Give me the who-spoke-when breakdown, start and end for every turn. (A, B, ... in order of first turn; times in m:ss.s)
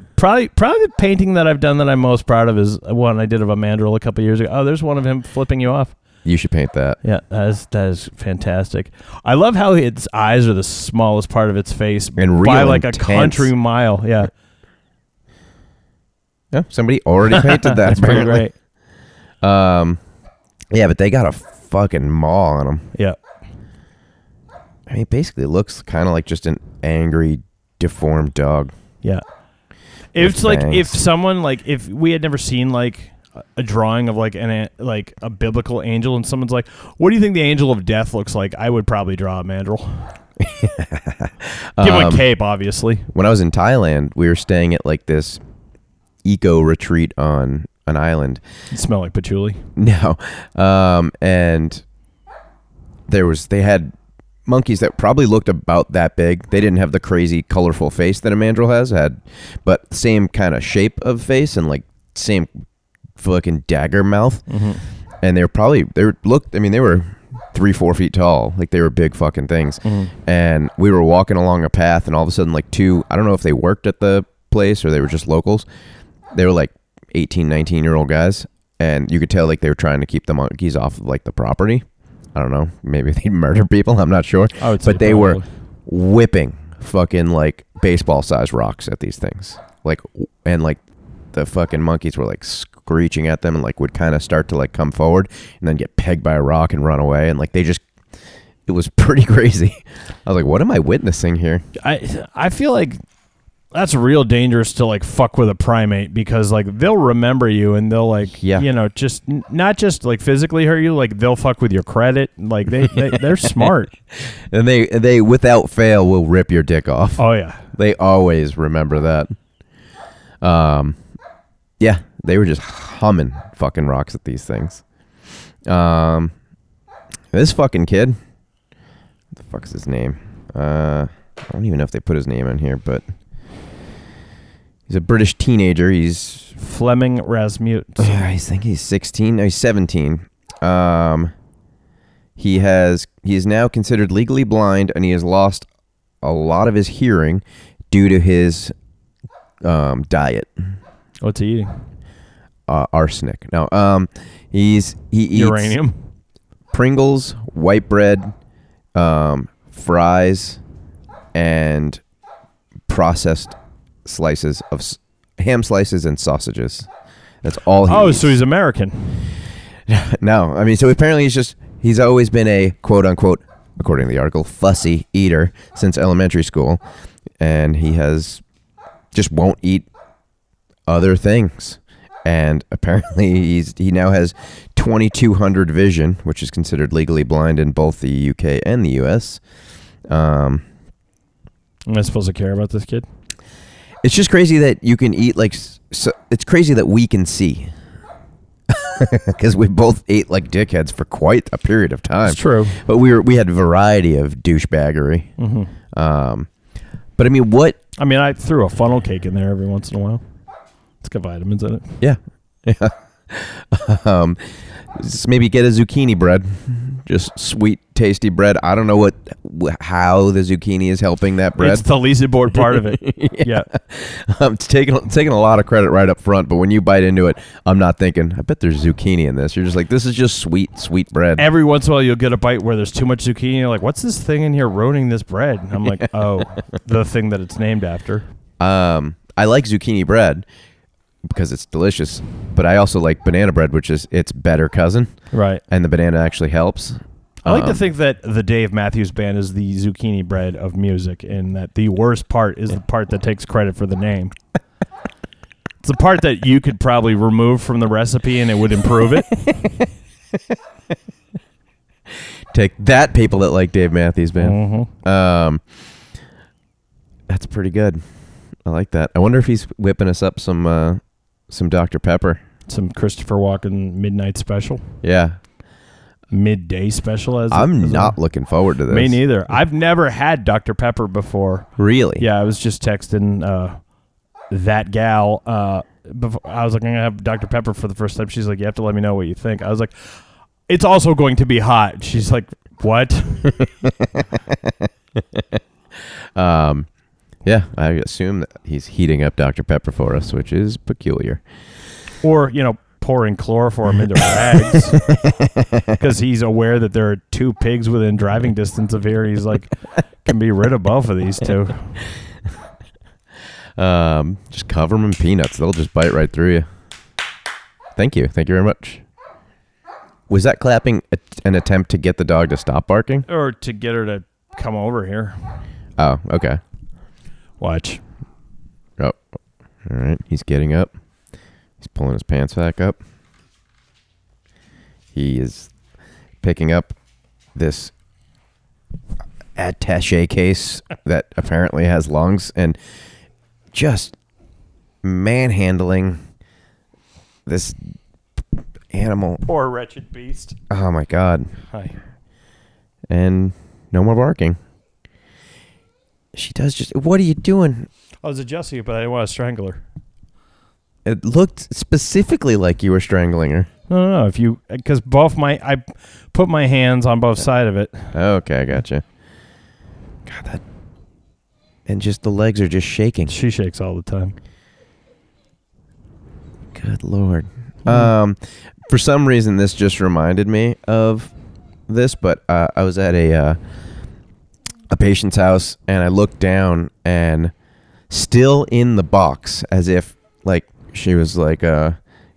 0:00.2-0:05.9 A
0:06.2-0:07.0 B
0:07.0-0:14.3 A
0:12.2-0:13.5 B
0:16.5-0:18.4 B
0:17.3-0:18.5 A
0:19.4-0:20.0 B
0:20.7-0:22.9 B
0:24.9-0:28.7 B
0:30.1-0:40.1 A
0:30.2-0:31.0 B
0:40.4-0:42.2 B
0:41.8-0:43.1 A
0:43.1-0:45.4 B
0:46.2-0:48.4 B
0:48.7-0:49.6 A
0:49.8-0:51.8 B
0:53.1-0:53.9 B
0:54.4-1:02.5 B
1:03.2-1:04.5 B
1:04.5-1:04.8 A
1:05.2-1:15.6 B
1:09.8-1:10.1 A
1:16.3-1:30.8 B
1:24.6-1:25.4 A
1:31.3-1:37.8 B
1:38.7-1:41.6 B
1:41.8-1:43.0 A
1:43.7-1:53.9 A
1:48.4-1:48.7 B
1:52.9-1:53.7 B
1:54.2-1:59.4 B
1:57.2-1:57.6 A
2:00.4-2:01.0 B
2:01.8-2:04.8 B
2:05.6-2:06.3 B
2:07.3-2:08.2 B
2:09.4-2:13.0 B
2:14.9-2:16.5 B
2:16.6-2:18.2 A
2:18.0-2:21.3 B
2:22.4-2:25.7 B
2:26.2-2:28.7 B
2:29.6-2:30.5 B
2:31.2-2:31.9 A
2:32.7-2:35.8 B
2:35.3-2:36.0 A
2:36.7-2:38.3 B
2:38.9-2:40.6 B
2:41.3-2:42.0 B
2:42.9-2:46.9 B
2:47.4-2:48.4 B
2:47.9-2:49.2 A
2:49.9-2:56.8 B
2:57.4-2:58.4 B
2:59.1-2:59.9 B
3:00.9-3:09.4 B
3:10.1-3:10.6 B
3:11.9-3:13.0 A
3:14.0-3:17.7 B
3:18.7-3:25.3 B
3:22.2-3:22.8 A
3:25.4-3:25.7 A
3:25.9-3:26.5 B
3:27.2-3:27.8 B
3:28.0-3:30.2 A
3:31.0-3:31.9 A
3:32.0-3:41.8 B
3:41.6-3:43.7 A
3:42.5-3:51.5 B
3:51.4-3:58.2 A
3:58.6-4:00.5 B
4:01.2-4:05.1 B
4:05.3-4:05.6 A
4:05.7-4:07.8 B
4:07.4-4:14.3 A
4:15.8-4:19.4 A
4:22.5-4:25.6 B
4:24.4-4:24.9 A
4:27.3-4:28.0 B
4:28.6-4:32.4 B
4:32.7-4:34.8 A
4:35.0-4:35.4 B
4:36.3-4:38.2 A
4:37.5-4:39.2 B
4:38.9-4:43.8 A
4:41.8-4:42.2 B
4:44.5-4:53.6 A
4:53.4-4:56.9 B
4:57.4-5:01.4 B
5:02.2-5:05.0 A
5:05.0-5:05.9 B
5:06.0-5:09.7 A
5:10.2-5:12.0 A
5:13.8-5:16.6 B
5:18.0-5:19.0 B
5:20.3-5:23.3 B
5:23.3-5:25.6 A
5:26.0-5:26.6 B
5:27.6-5:28.0 A
5:29.8-5:30.9 B
5:31.8-5:33.0 B
5:35.1-5:35.7 B
5:36.4-5:36.9 B
5:37.5-5:37.9 B
5:39.6-5:42.8 B
5:43.7-5:44.2 B
5:45.0-5:46.2 B
5:47.5-5:47.8 B
5:48.9-5:49.4 B
5:49.5-5:50.6 A
5:50.7-5:51.5 B
5:51.7-5:52.0 A
5:53.1-5:54.6 B
5:56.3-5:57.9 B
5:58.2-5:59.8 A
6:01.0-6:03.7 B
6:03.9-6:08.1 A
6:08.1-6:09.0 B
6:10.2-6:10.6 B
6:11.9-6:13.3 B
6:13.3-6:14.4 A
6:16.7-6:21.3 B
6:17.8-6:18.1 A
6:21.9-6:23.6 B
6:24.9-6:27.5 B
6:28.1-6:32.0 B